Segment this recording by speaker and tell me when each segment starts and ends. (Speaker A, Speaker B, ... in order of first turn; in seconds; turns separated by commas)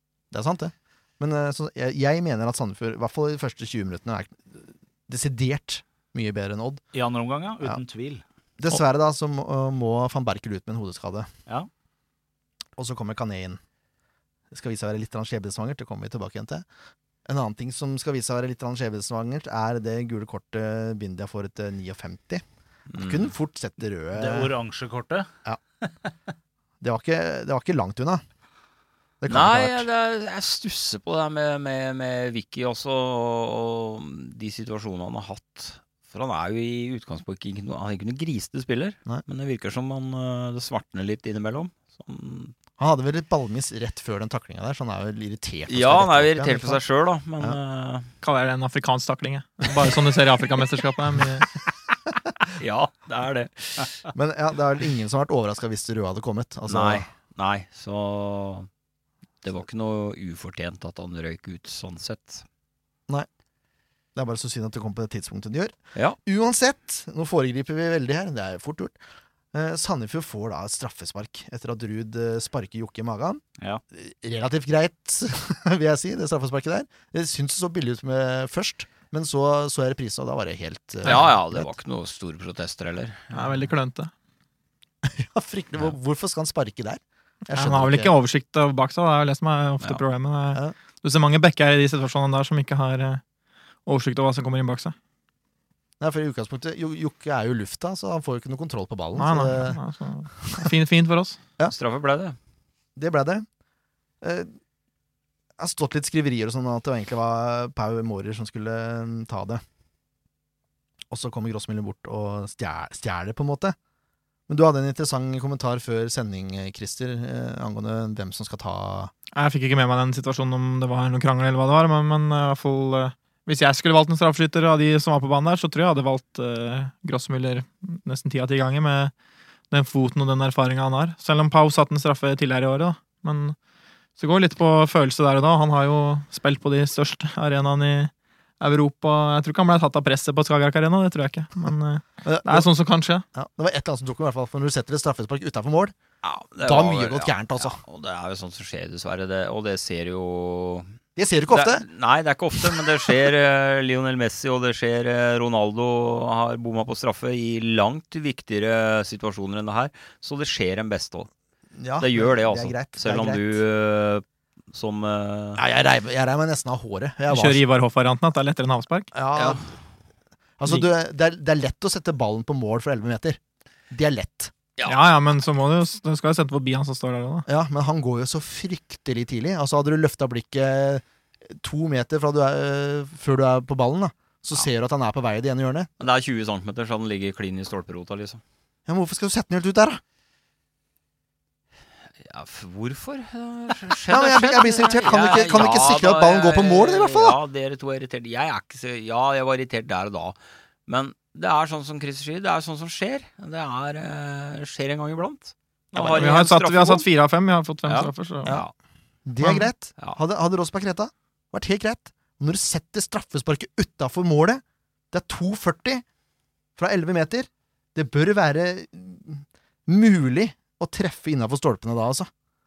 Speaker A: 0.3-6.8, Speaker B: 6.9-8.2, Speaker A: 8.6-11.3, Speaker A: 12.8-13.6, Speaker A: 14.5-16.6, Speaker A: 17.2-22.4, Speaker C: 22.9-23.3, Speaker A: 22.9-24.5, Speaker B: 24.1-25.3, Speaker B: 25.8-26.1, Speaker A: 26.8-28.2, Speaker A: 29.2-29.9, Speaker C: 29.3-42.5, Speaker A: 42.8-46.8, Speaker C: 45.7-48.1, Speaker D: 48.2-51.5, Speaker C: 52.5-54.1, Speaker A: 54.1-57.0, Speaker C: 56.7-58.7, Speaker C: 59.4-62.4, Speaker A: 64.1-68.9, Speaker A: 69.5-73.4, Speaker A: 73.9-81.7, Speaker C: 81.0-83.7, Speaker D: 83.3-84.1, Speaker A: 85.0-88.1, Speaker D: 87.5-93.2, Speaker D: 93.8-94.9, Speaker A: 96.0-99.8, Speaker D: 99.1-101.4, Speaker A: 100.4-100.7, Speaker C: 101.7-102.3, Speaker A: 103.0-103.5, Speaker A: 104.2-104.5, Speaker A: 105.6-109.6, Speaker A: 111.1-113.8, Speaker A: 114.5-119.1, Speaker D: 119.3-129.1, Speaker D: 129.7-133.6, Speaker D: 134.2-143.2, Speaker A: 142.2-142.7, Speaker A: 143.3-145.9, Speaker C: 146.2-150.9, Speaker A: 146.6-147.8, Speaker A: 151.2-151.8, Speaker C: 151.5-161.3, Speaker A: 161.7-163.6, Speaker C: 162.0-165.6, Speaker A: 165.6-167.6, Speaker D: 167.3-169.1, Speaker A: 169.1-169.6, Speaker C: 169.3-169.7, Speaker A: 170.6-173.4, Speaker A: 173.9-174.5, Speaker C: 174.8-175.1, Speaker D: 174.8-177.4, Speaker A: 177.5-185.9, Speaker C: 186.0-188.4, Speaker A: 188.9-190.0, Speaker C: 192.2-200.3, Speaker A: 194.1-197.4, Speaker C: 200.9-207.1, Speaker D: 205.9-208.6, Speaker C: 207.8-208.7, Speaker A: 209.2-216.0, Speaker D: 209.4-209.7, Speaker A: 216.8-222.3